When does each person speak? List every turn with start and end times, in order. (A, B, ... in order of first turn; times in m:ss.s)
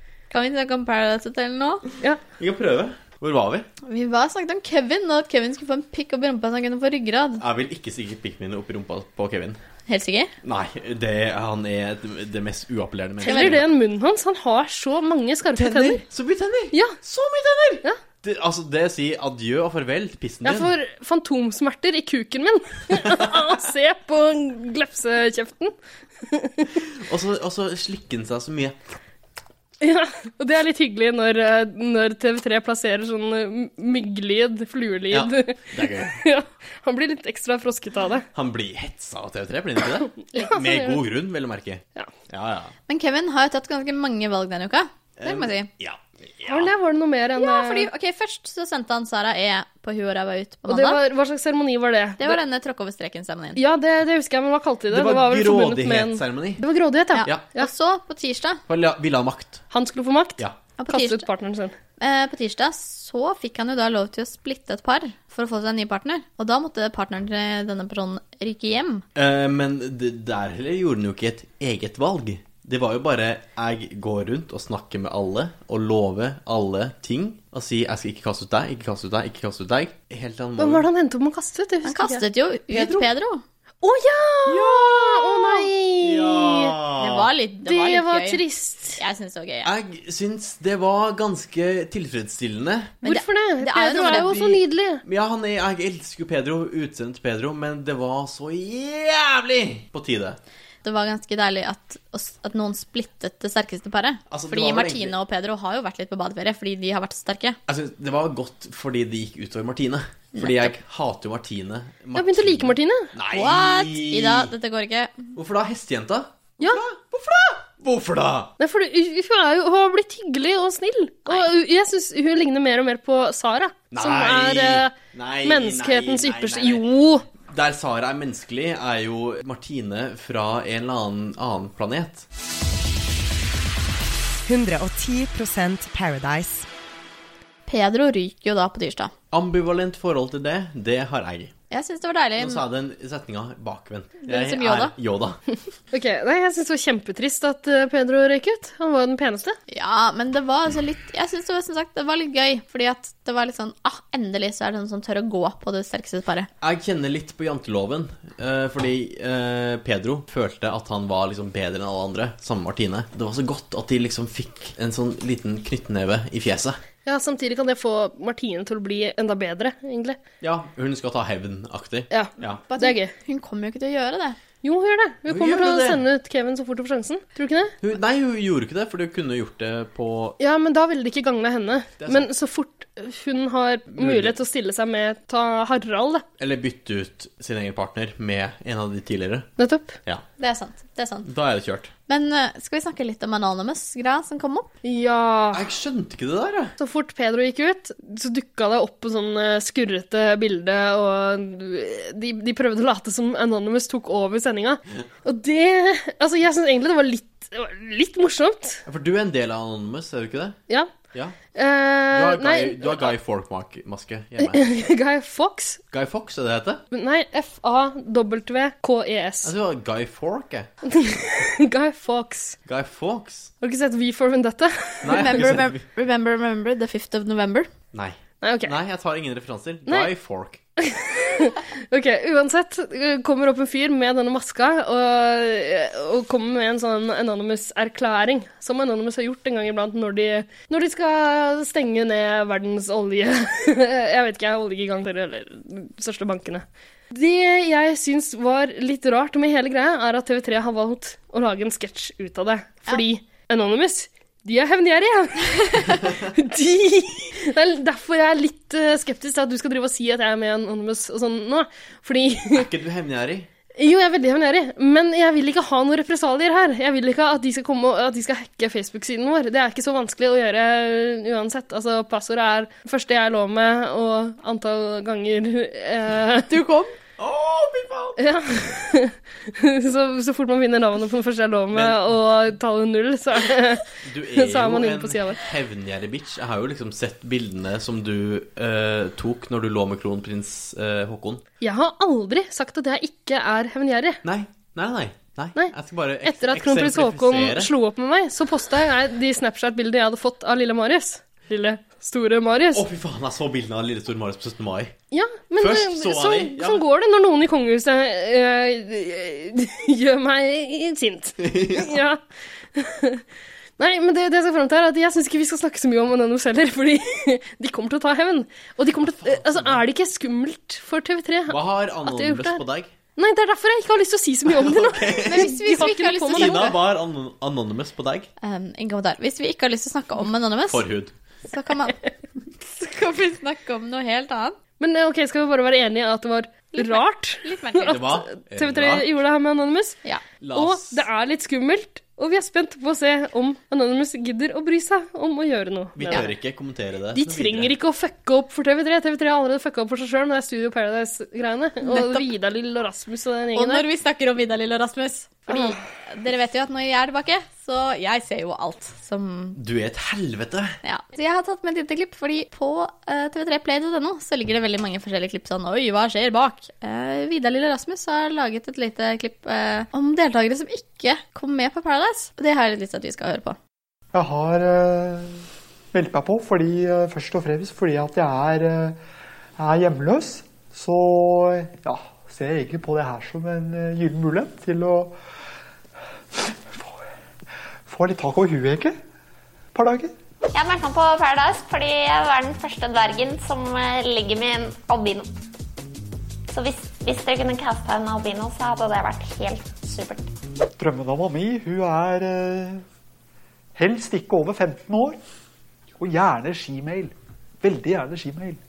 0:00.3-0:01.8 A
0:02.4-0:03.7 B
0:03.8-0:07.4 A
0:07.4-0:09.6 B
0:09.9-0:10.3 A
0:10.4-0:13.6 B
0:13.2-0:16.0 C
0:13.2-0:13.6 A
0:15.6-0:20.7 B
0:20.4-0:26.7 C
0:23.0-0:23.4 B
0:26.9-0:28.8 B
0:29.8-0:38.2 C
0:35.1-0:36.2 B
0:38.4-0:42.7 B
0:40.2-0:41.0 C
0:42.9-0:45.7 A
0:45.2-0:46.7 B
0:46.5-0:47.9 C
0:47.4-0:51.0 A
0:50.7-0:52.4 C
0:52.2-0:53.6 A
0:53.6-0:57.7 C
0:54.9-0:56.6 B
0:57.2-0:58.6 A
0:58.7-0:59.6 B
0:59.7-1:01.7 C
1:00.8-1:01.2 A
1:02.0-1:09.0 A
1:09.2-1:20.9 B
1:20.6-1:22.2 C
1:21.8-1:23.4 A
1:22.7-1:23.1 B
1:23.8-1:26.8 C
1:24.5-1:27.3 B
1:27.0-1:28.4 A
1:27.6-1:29.0 C
1:29.0-1:29.7 A
1:29.6-1:33.0 B
1:33.0-1:35.0 C
1:33.0-1:34.4 A
1:34.0-1:40.4 B
1:40.8-1:47.6 A
1:44.3-1:45.2 B
1:47.7-1:54.5 B
1:50.4-1:50.7 A
1:52.2-1:53.1 C
1:53.3-1:55.3 A
1:55.4-1:58.5 B
1:58.6-2:04.9 C
2:03.9-2:06.9 B
2:05.4-2:07.2 C
2:07.4-2:12.3 B
2:14.5-2:16.7 D
2:17.7-2:19.1 A
2:19.3-2:21.5 B
2:21.7-2:22.6 A
2:22.4-2:25.4 B
2:24.3-2:24.9 A
2:25.9-2:29.6 C
2:29.7-2:36.5 A
2:36.6-2:46.8 B
2:47.1-2:50.2 C
2:50.4-2:52.6 B
2:52.1-2:53.1 C
2:52.7-2:54.4 A
2:54.6-2:57.8 C
2:55.3-2:56.0 B
2:57.8-3:00.4 B
3:00.4-3:06.2 C
3:02.0-3:02.3 B
3:03.9-3:04.4 B
3:06.4-3:09.5 B
3:09.6-3:10.0 C
3:10.4-3:11.3 A
3:11.3-3:11.9 B
3:12.1-3:14.7 A
3:14.8-3:15.6 C
3:15.5-3:16.8 B
3:16.8-3:28.8 C
3:28.9-3:30.6 B
3:31.6-3:33.1 C
3:32.1-3:34.7 B
3:34.4-3:35.8 C
3:35.9-3:36.8 B
3:36.9-3:39.5 C
3:39.4-3:40.7 B
3:40.9-3:42.6 C
3:42.7-3:43.5 B
3:43.6-3:45.4 C
3:45.0-3:45.8 B
3:45.1-3:47.7 A
3:47.9-3:50.6 B
3:48.4-3:48.7 C
3:50.8-4:22.6 C
4:22.5-4:23.5 B
4:23.8-4:36.5 C
4:36.5-4:37.0 A
4:37.2-4:38.2 B
4:38.2-4:45.4 C
4:41.7-4:42.2 B
4:44.0-4:51.4 B
4:51.6-4:54.2 C
4:54.2-4:57.7 B
4:56.2-5:02.8 C
5:02.7-5:05.0 B
5:05.1-5:12.2 C
5:05.6-5:06.8 B
5:11.4-5:12.0 B
5:12.8-5:13.2 C
5:13.8-5:22.6 C
5:19.0-5:19.8 B
5:21.5-5:22.9 B
5:23.2-5:26.8 C
5:24.5-5:25.5 B
5:25.2-5:26.8 A
5:26.3-5:28.3 B
5:28.4-5:30.8 A
5:30.7-5:31.1 B
5:31.5-5:32.0 A
5:32.6-5:34.6 A
5:34.8-5:40.0 C
5:36.7-5:38.0 A
5:37.9-5:39.1 B
5:40.4-5:41.1 B
5:40.5-5:46.3 C
5:46.0-5:47.7 B
5:47.1-5:53.9 C
5:51.8-5:52.3 A
5:53.6-5:59.6 A
5:55.5-5:55.8 C
5:59.6-6:00.8 B
6:00.8-6:13.6 A
6:14.1-6:15.4 E
6:15.9-6:19.0 E
6:19.6-6:25.2 E
6:26.4-6:26.9 E
6:27.9-6:29.0 E
6:29.7-6:30.1 E
6:30.5-6:35.3 F
6:36.5-6:40.3 F
6:40.8-6:42.8 E
6:43.8-6:45.2 E
6:46.0-6:48.6 E